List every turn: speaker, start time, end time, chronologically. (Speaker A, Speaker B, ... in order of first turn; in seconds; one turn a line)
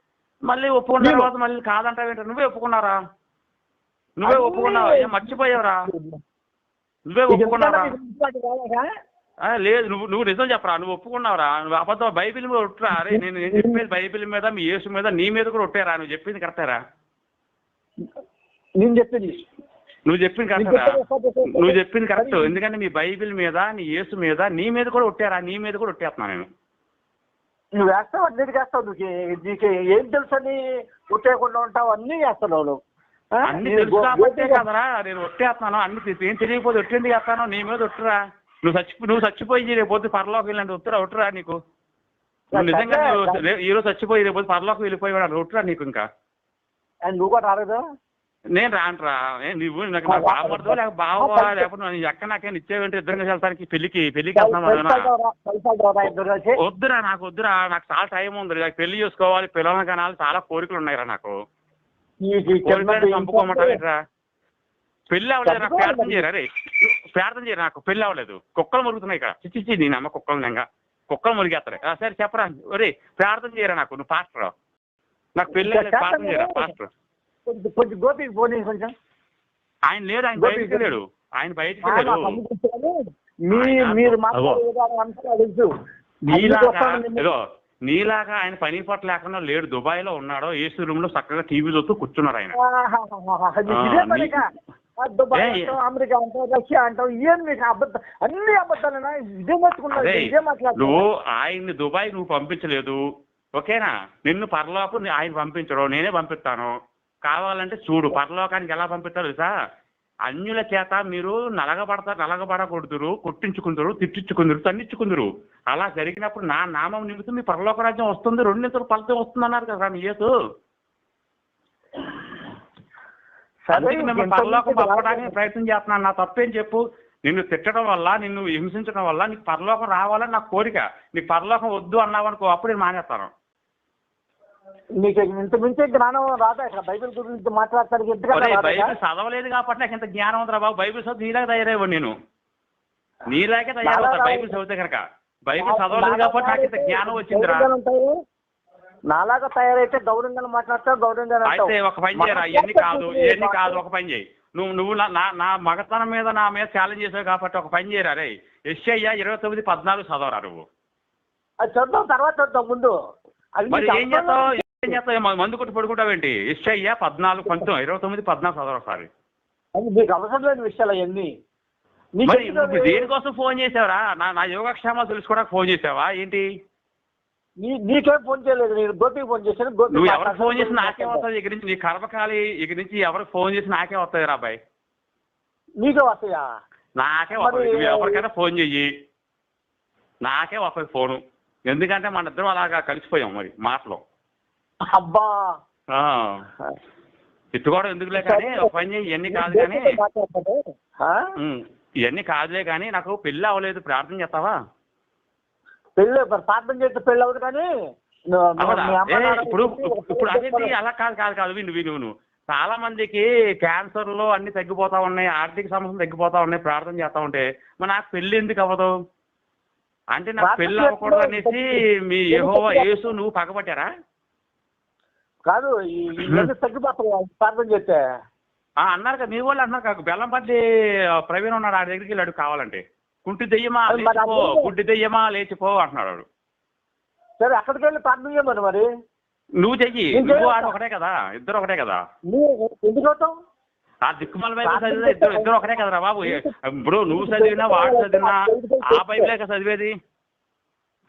Speaker A: 0.5-3.0
Speaker B: 1.0-1.3
Speaker A: 4.2-5.8
Speaker B: 4.3-6.2
Speaker A: 7.1-7.9
Speaker B: 7.3-8.9
Speaker A: 9.4-16.8
Speaker B: 12.9-13.8
Speaker B: 18.8-19.4
Speaker A: 20.1-21.0
Speaker B: 20.6-22.5
Speaker A: 21.5-26.5
Speaker B: 27.8-30.6
Speaker B: 31.1-32.8
Speaker B: 33.4-34.6
Speaker A: 33.5-41.6
Speaker B: 42.5-43.4
Speaker A: 42.5-46.1
Speaker B: 47.1-47.8
Speaker A: 48.5-55.1
Speaker B: 50.1-51.7
Speaker B: 54.4-56.6
Speaker A: 56.0-61.4
Speaker B: 62.2-63.8
Speaker A: 62.6-64.0
Speaker A: 65.1-74.5
Speaker B: 65.5-66.2
Speaker A: 75.4-76.9
Speaker B: 75.5-76.7
Speaker B: 77.5-78.9
Speaker A: 79.9-82.4
Speaker B: 80.4-80.9
Speaker B: 81.8-83.0
Speaker B: 83.5-85.7
Speaker A: 83.5-84.6
Speaker A: 86.3-92.5
Speaker B: 86.3-87.2
Speaker B: 92.6-94.5
Speaker A: 93.7-94.4
Speaker B: 95.0-101.0
Speaker A: 95.3-95.7
Speaker A: 99.9-103.0
Speaker A: 103.6-106.7
Speaker A: 107.3-109.5
Speaker A: 110.3-120.3
Speaker B: 123.7-125.4
Speaker A: 123.7-133.3
Speaker B: 135.0-138.9
Speaker A: 138.3-142.1
Speaker A: 143.3-147.7
Speaker B: 143.8-144.6
Speaker B: 145.6-148.2
Speaker B: 149.1-153.8
Speaker A: 151.5-160.7
Speaker B: 161.6-162.9
Speaker B: 163.6-164.9
Speaker A: 163.7-169.1
Speaker B: 169.8-171.3
Speaker B: 172.2-173.1
Speaker A: 172.3-176.5
Speaker B: 177.6-181.2
Speaker A: 179.9-184.6
Speaker B: 185.8-186.4
Speaker A: 187.0-188.9
Speaker B: 187.4-188.2
Speaker A: 190.2-194.0
Speaker B: 194.9-195.3
Speaker A: 195.9-196.5
Speaker A: 197.5-200.0
Speaker B: 198.2-198.8
Speaker B: 199.3-201.3
Speaker A: 201.4-204.6
Speaker B: 206.0-207.7
Speaker B: 208.3-210.7
Speaker A: 208.6-218.9
Speaker A: 220.2-223.9
Speaker B: 220.4-221.8
Speaker B: 222.3-222.9
Speaker B: 225.5-228.0
Speaker A: 226.2-226.5
Speaker A: 228.8-230.6
Speaker A: 231.3-236.3
Speaker B: 233.9-234.7
Speaker B: 237.4-238.9
Speaker A: 239.6-242.0
Speaker B: 240.1-240.7
Speaker B: 242.3-243.3
Speaker A: 244.1-249.9
Speaker B: 244.6-245.6
Speaker B: 246.2-246.5
Speaker B: 247.1-249.3